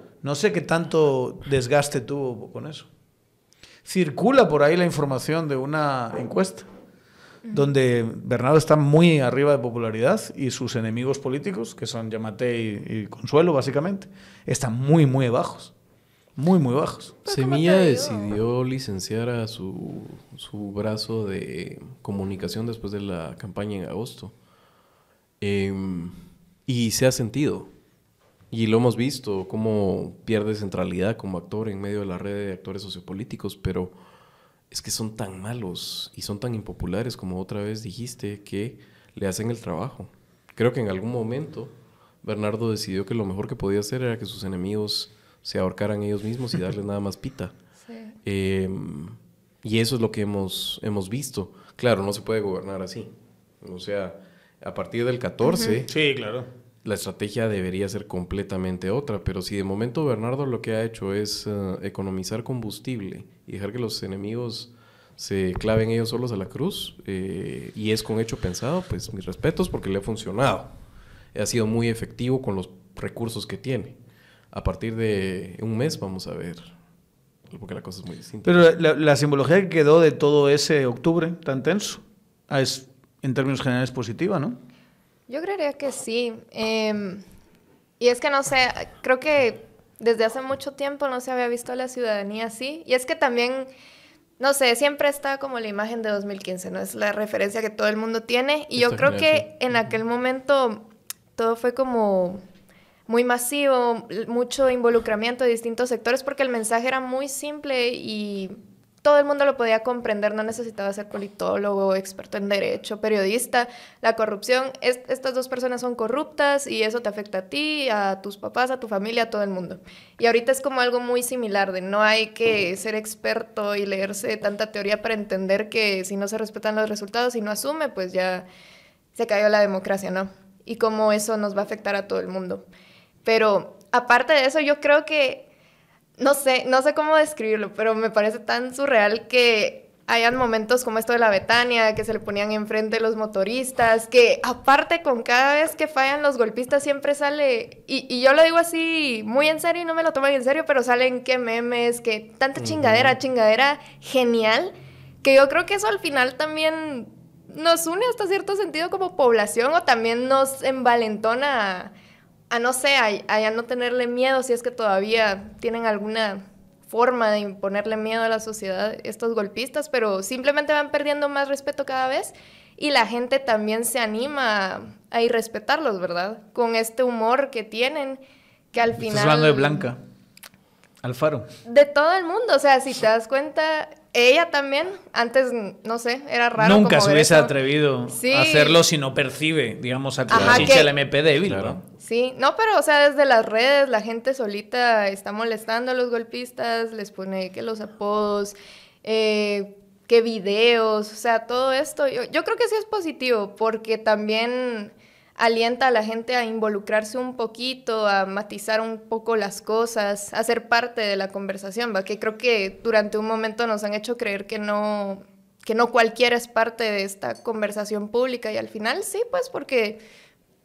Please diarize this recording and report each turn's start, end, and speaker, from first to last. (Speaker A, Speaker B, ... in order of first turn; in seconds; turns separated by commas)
Speaker A: 0.2-2.9, Speaker A: 3.9-6.7, Speaker A: 7.5-15.7, Speaker A: 16.4-17.2, Speaker B: 17.2-24.3, Speaker C: 17.3-18.3, Speaker B: 25.4-27.7, Speaker B: 28.5-33.9, Speaker B: 34.7-47.5, Speaker C: 47.9-48.1, Speaker B: 48.2-53.1, Speaker B: 53.6-55.9, Speaker C: 55.5-55.8, Speaker A: 55.9-56.5, Speaker B: 56.8-70.7, Speaker B: 71.3-74.0, Speaker B: 74.5-76.6, Speaker B: 77.5-78.7, Speaker A: 78.4-84.6, Speaker C: 85.3-87.2, Speaker C: 88.0-93.7, Speaker C: 94.4-102.4, Speaker B: 98.8-99.5, Speaker C: 103.1-128.4, Speaker C: 129.2-132.6, Speaker C: 133.2-135.5, Speaker C: 136.2-161.9, Speaker B: 152.6-153.1, Speaker C: 162.5-178.2, Speaker C: 178.7-179.9, Speaker A: 179.0-180.0, Speaker A: 181.0-181.5, Speaker C: 181.6-187.5, Speaker A: 186.6-191.8, Speaker C: 188.1-188.8, Speaker B: 190.3-190.8, Speaker C: 190.3-190.9, Speaker B: 191.4-191.8, Speaker C: 192.0-220.0